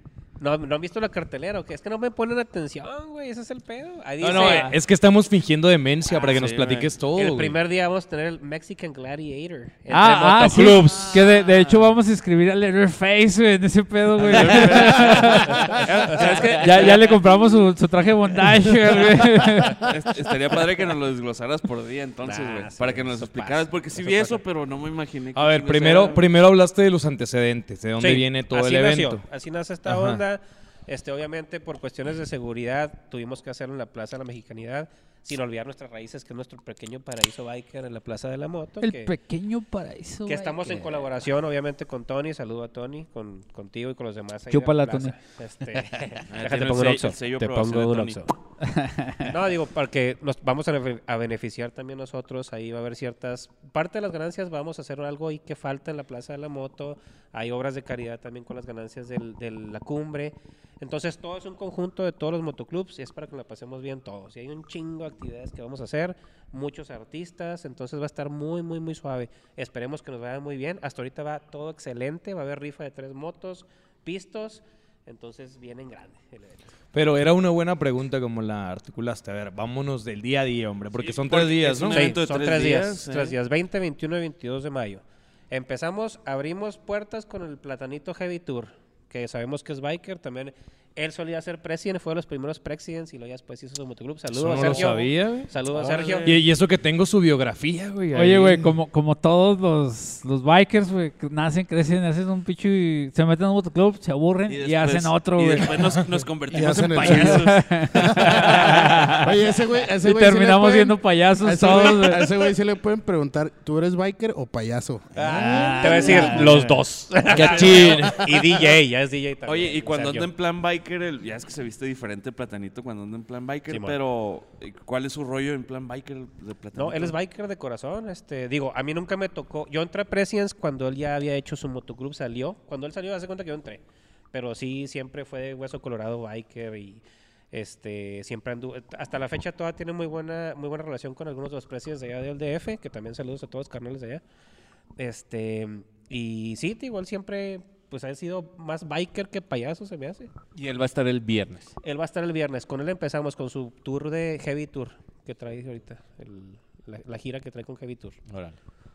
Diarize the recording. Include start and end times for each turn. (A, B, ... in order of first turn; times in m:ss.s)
0:00.4-0:04.8 A
0:04.2-0:07.6 B
0:04.4-0:04.7 C
0:06.1-0:06.9 D
0:07.1-0:11.2 A
0:09.9-0:19.8 C
0:14.2-0:17.3 D
0:15.8-0:16.9 A
0:19.8-0:26.3 D
0:22.2-0:24.4 A
0:25.4-0:29.2 B
0:28.0-0:39.1 A
0:29.9-0:30.2 B
0:38.8-0:40.9 C
0:40.3-0:48.3 A
0:44.5-0:45.1 C
0:46.3-0:48.2 D
0:48.6-0:49.3 C
0:49.2-1:16.7 A
1:16.9-1:22.1 B
1:21.0-1:23.4 D
1:21.9-1:36.4 A
1:34.3-1:35.5 B
1:35.7-1:36.4 D
1:36.2-1:38.7 B
1:38.1-1:45.8 C
1:44.5-1:48.7 D
1:46.5-1:56.4 E
1:47.0-1:49.3 C
1:50.0-1:52.3 C
1:55.2-2:00.3 A
1:55.3-1:56.8 C
1:57.3-1:58.4 D
1:57.3-1:58.3 B
1:57.5-1:58.1 F
1:59.4-2:07.1 D
2:03.7-2:04.0 A
2:06.8-2:24.2 A
2:25.0-2:30.3 A
2:30.6-2:31.8 F
2:31.8-2:38.2 A
2:38.3-2:38.6 F